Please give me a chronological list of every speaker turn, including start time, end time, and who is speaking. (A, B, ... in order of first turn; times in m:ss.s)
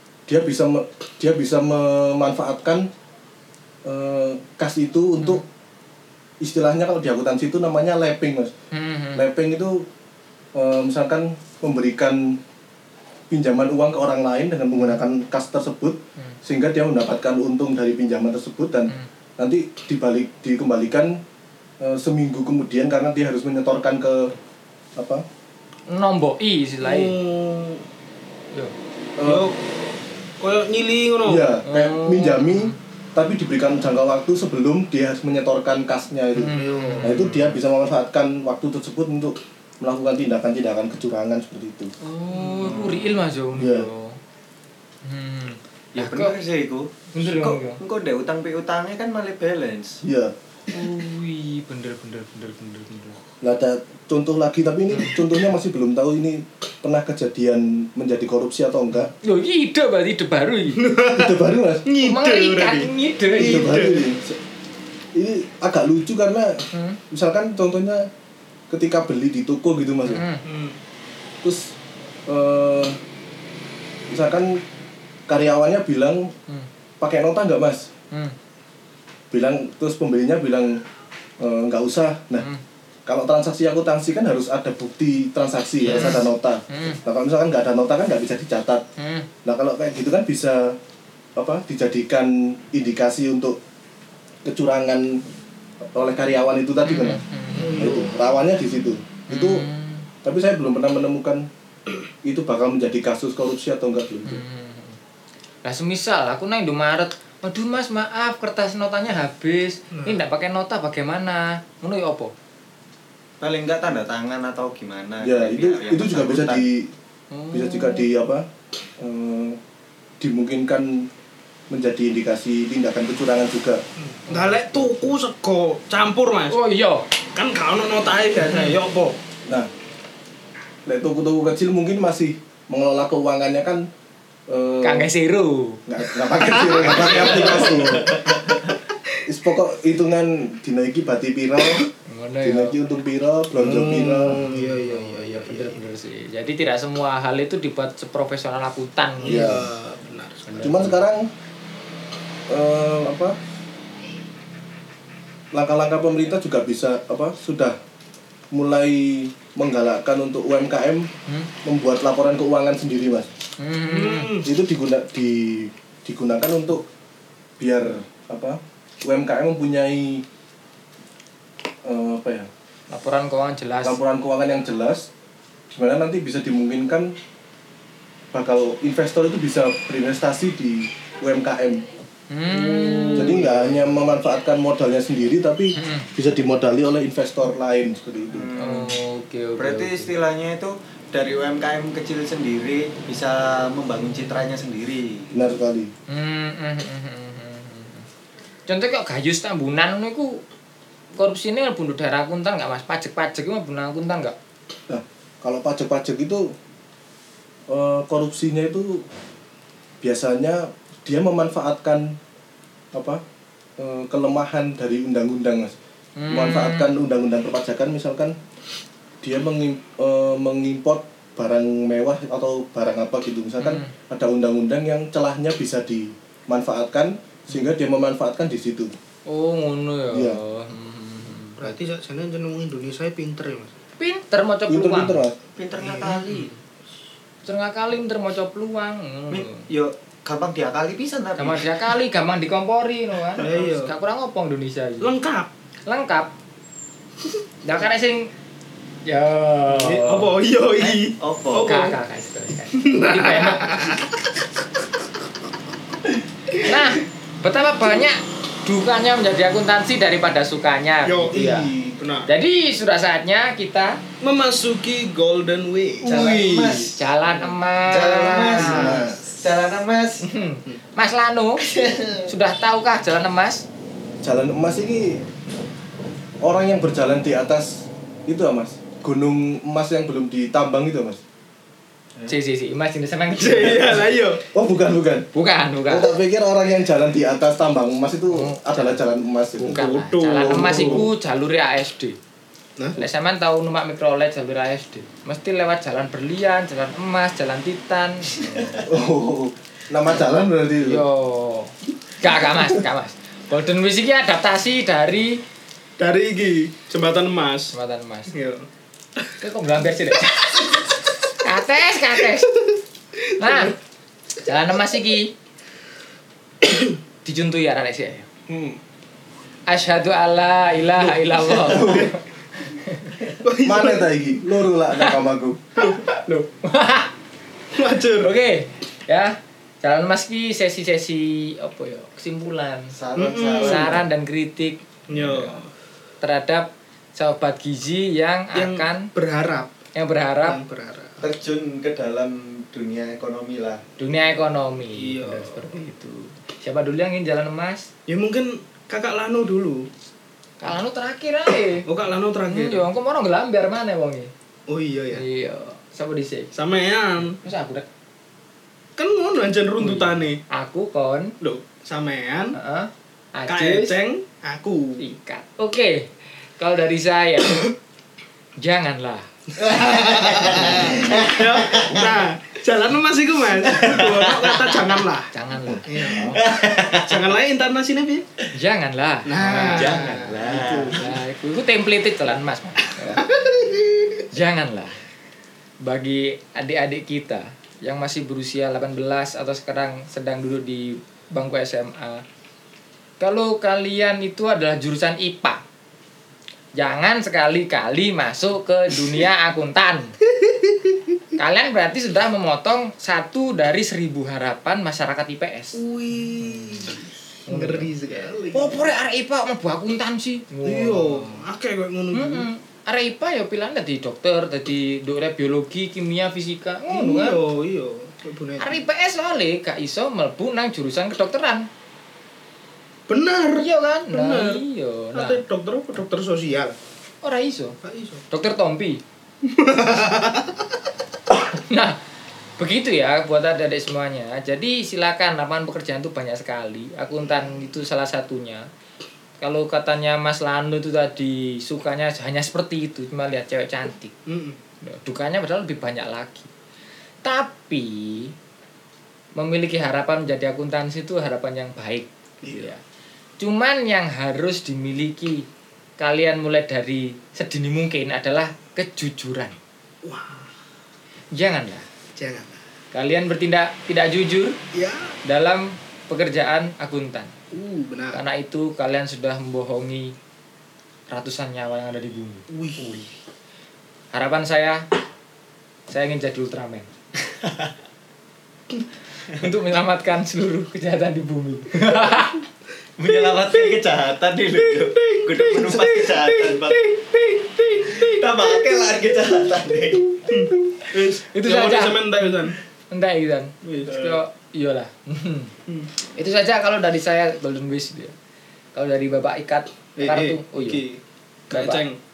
0:00.3-0:02.9 A
0:03.8-0:05.4 A
0:06.4-0:08.5 A
0:08.7-0:09.3 B
0:09.2-0:09.9 A
0:10.6-0:12.4 A
0:13.3-0:21.2 A
0:21.8-0:24.3 A
0:25.0-0:25.2 A
0:25.9-0:27.2 B
0:26.8-0:27.8 C
0:29.2-0:29.5 A
0:29.2-0:29.6 C
0:30.4-0:31.5 C
0:31.2-0:41.9 A
0:31.7-0:32.8 B
0:36.4-0:37.6 B
0:36.5-0:37.2 C
0:42.0-0:44.2 B
0:42.4-0:42.9 C
0:42.6-0:42.9 D
0:43.6-0:43.9 A
0:45.0-0:46.4 B
0:46.0-0:50.0 D
0:47.1-0:47.8 B
0:50.0-0:50.3 A
0:50.7-0:53.2 B
0:53.4-0:59.1 A
0:59.2-1:00.8 B
1:00.8-1:04.0 C
1:01.1-1:01.8 A
1:02.0-1:03.8 B
1:03.4-1:04.4 A
1:05.2-1:08.1 A
1:06.7-1:07.0 B
1:08.7-1:10.2 A
1:10.1-1:10.4 B
1:10.4-1:10.8 C
1:11.4-1:11.7 A
1:12.3-1:13.0 A
1:14.1-1:14.6 A
1:15.3-1:16.3 A
1:17.0-1:17.9 A
1:19.3-1:20.8 A
1:21.4-1:22.5 A
1:23.1-1:28.8 A
1:25.8-1:27.0 B
1:29.0-1:29.3 B
1:29.4-1:30.8 A
1:31.4-1:33.6 A
1:34.4-1:35.2 A
1:35.9-1:37.2 A
1:36.8-1:37.9 B
1:37.5-1:38.1 C
1:37.7-1:39.7 A
1:39.3-1:40.1 B
1:40.2-1:41.5 A
1:42.2-1:44.4 A
1:44.3-1:45.0 B
1:45.6-1:52.3 B
1:49.9-1:50.2 C
1:53.4-1:56.6 D
1:55.2-1:56.9 A
1:57.3-1:58.1 B
1:57.5-1:58.5 A
1:59.0-1:59.6 A
2:00.2-2:01.1 A
2:01.7-2:03.8 A
2:04.0-2:06.6 C
2:04.3-2:05.1 B
2:06.5-2:07.1 B
2:07.4-2:09.2 C
2:08.4-2:08.8 B
2:10.9-2:13.9 A
2:14.5-2:15.1 A
2:14.8-2:15.8 B
2:15.9-2:18.2 A
2:16.4-2:17.7 C
2:17.0-2:18.4 D
2:19.3-2:21.9 A
2:22.1-2:22.8 B
2:22.4-2:24.4 A
2:23.6-2:25.8 C
2:24.3-2:29.6 B
2:29.2-2:30.9 C
2:29.2-2:29.7 A
2:30.5-2:31.0 B
2:30.6-2:31.3 A
2:32.5-2:33.4 A
2:35.5-2:37.8 A
2:38.5-2:41.1 A
2:41.6-2:43.3 A
2:43.6-2:44.4 B
2:43.9-2:44.5 C
2:44.4-2:46.8 A
2:47.6-2:50.2 A
2:51.8-2:52.5 A
2:52.9-2:54.0 B
2:53.8-2:55.1 A
2:55.8-2:57.1 A
2:58.3-3:01.8 A
3:02.3-3:03.4 B
3:02.5-3:03.7 C
3:03.1-3:08.5 A
3:05.8-3:06.1 B
3:08.3-3:08.9 D
3:08.6-3:10.1 B
3:09.6-3:15.3 D
3:15.3-3:15.9 A
3:16.1-3:18.1 B
3:18.7-3:20.4 B
3:21.2-3:24.4 B
3:24.9-3:26.5 A
3:27.7-3:29.0 A
3:30.0-3:32.2 A
3:32.9-3:33.2 A
3:33.8-3:35.8 A
3:36.2-3:36.9 B
3:36.3-3:38.4 A
3:39.2-3:49.0 A
3:43.6-3:43.9 B
3:49.3-3:51.7 B
3:50.1-3:50.4 A
3:51.6-3:53.8 C
3:54.0-3:55.2 B
3:54.7-3:55.4 A
3:55.6-3:56.5 D
3:55.7-3:56.5 C
3:57.4-3:59.6 B
3:59.3-4:01.7 D
4:01.4-4:05.1 B
4:03.4-4:03.9 C
4:05.0-4:05.5 C
4:05.9-4:06.3 B
4:07.6-4:08.3 B
4:09.1-4:10.3 B
4:09.7-4:12.0 C
4:10.8-4:11.8 D
4:11.6-4:13.7 B
4:12.8-4:14.2 C
4:16.6-4:21.7 B
4:21.0-4:22.3 C
4:22.3-4:24.0 B
4:24.2-4:26.8 C
4:26.0-4:27.0 D
4:26.2-4:26.7 A
4:26.7-4:29.0 B
4:27.9-4:30.3 D
4:28.5-4:29.2 A
4:30.2-4:31.7 B
4:31.7-4:32.2 D
4:32.2-4:33.7 B
4:34.2-4:35.2 A
4:36.4-4:41.2 A
4:42.2-4:44.1 B
4:43.4-4:44.4 C
4:44.5-4:45.3 A
4:45.3-4:46.1 B
4:45.9-4:51.1 A
4:48.3-4:49.0 B
4:49.6-4:52.2 B
4:49.7-4:51.1 C
4:53.0-4:58.4 B
4:58.4-4:58.8 D
4:58.8-5:01.0 A
5:00.8-5:05.4 B
5:06.0-5:07.8 C
5:07.7-5:08.3 B
5:08.3-5:08.7 C
5:09.4-5:10.5 B
5:11.4-5:12.5 B
5:13.2-5:13.8 C
5:13.4-5:13.7 B
5:14.4-5:15.3 B
5:17.2-5:18.3 B
5:18.5-5:18.8 A
5:19.7-5:23.2 B
5:21.0-5:22.1 C
5:21.7-5:22.1 A
5:23.4-5:24.1 C
5:23.6-5:25.6 A
5:25.8-5:27.1 B
5:27.7-5:28.3 C
5:28.2-5:33.0 B
5:33.0-5:34.0 D
5:33.2-5:34.0 C
5:33.6-5:35.6 B
5:35.1-5:35.7 C
5:36.2-5:39.1 B
5:38.5-5:39.7 C
5:40.0-5:40.6 B
5:40.4-5:41.2 C
5:41.2-5:43.8 D
5:44.0-5:47.9 B
5:45.0-5:45.7 C
5:48.1-5:49.9 C
5:50.6-5:51.8 B
5:51.8-5:52.9 C
5:52.5-5:54.3 B
5:54.7-5:55.2 C
5:55.1-5:56.5 B
5:56.5-5:57.4 C
5:57.3-5:57.9 B
5:59.0-6:00.4 C
5:59.8-6:01.3 B
6:01.4-6:02.6 C
6:02.6-6:04.0 B
6:03.5-6:05.0 C
6:05.0-6:06.1 B
6:06.6-6:07.7 B
6:08.6-6:10.9 B
6:09.6-6:15.3 C
6:10.4-6:12.1 D
6:13.7-6:14.6 D
6:15.3-6:16.3 B
6:15.9-6:18.3 C
6:16.1-6:17.3 D
6:18.5-6:20.3 B
6:19.3-6:21.1 C
6:19.7-6:21.0 D
6:20.9-6:23.2 B
6:23.0-6:24.2 C
6:24.3-6:25.0 B
6:25.8-6:32.2 B
6:33.2-6:35.6 B
6:36.8-6:40.1 B
6:40.4-6:41.0 C
6:41.4-6:45.8 B
6:45.8-6:48.8 C
6:47.5-6:47.9 B
6:48.5-6:51.4 B
6:50.6-6:52.5 C
6:52.1-6:57.4 B
6:56.9-6:58.8 C
6:58.6-7:01.7 B
7:03.1-7:04.6 C
7:03.6-7:05.4 B
7:05.1-7:06.8 C
7:07.2-7:07.8 B
7:07.8-7:08.2 C
7:08.3-7:09.0 B
7:09.4-7:10.6 C
7:11.5-7:12.0 B
7:12.6-7:18.7 B
7:19.4-7:24.1 B
7:24.3-7:24.6 C
7:24.8-7:26.5 B
7:27.2-7:28.3 B
7:29.4-7:32.8 B
7:32.4-7:32.7 C
7:33.4-7:35.5 B
7:36.0-7:39.6 B
7:40.0-7:40.5 C
7:41.4-7:41.8 B
7:42.2-7:42.6 C
7:42.9-7:44.6 B
7:44.7-7:45.2 C
7:45.2-7:47.3 B
7:47.5-7:48.2 C
7:48.1-7:50.1 B
7:51.1-7:53.1 B
7:52.5-7:53.1 C
7:54.1-7:54.8 B
7:55.9-7:56.9 B
7:59.3-8:02.4 B
8:03.0-8:06.9 D
8:03.1-8:03.8 C
8:04.5-8:09.0 C
8:07.9-8:10.2 D
8:10.3-8:12.6 C
8:11.3-8:12.0 B
8:12.9-8:15.5 B
8:13.6-8:14.2 C
8:16.2-8:18.1 B
8:18.8-8:20.8 B
8:20.0-8:22.0 C
8:21.5-8:21.9 B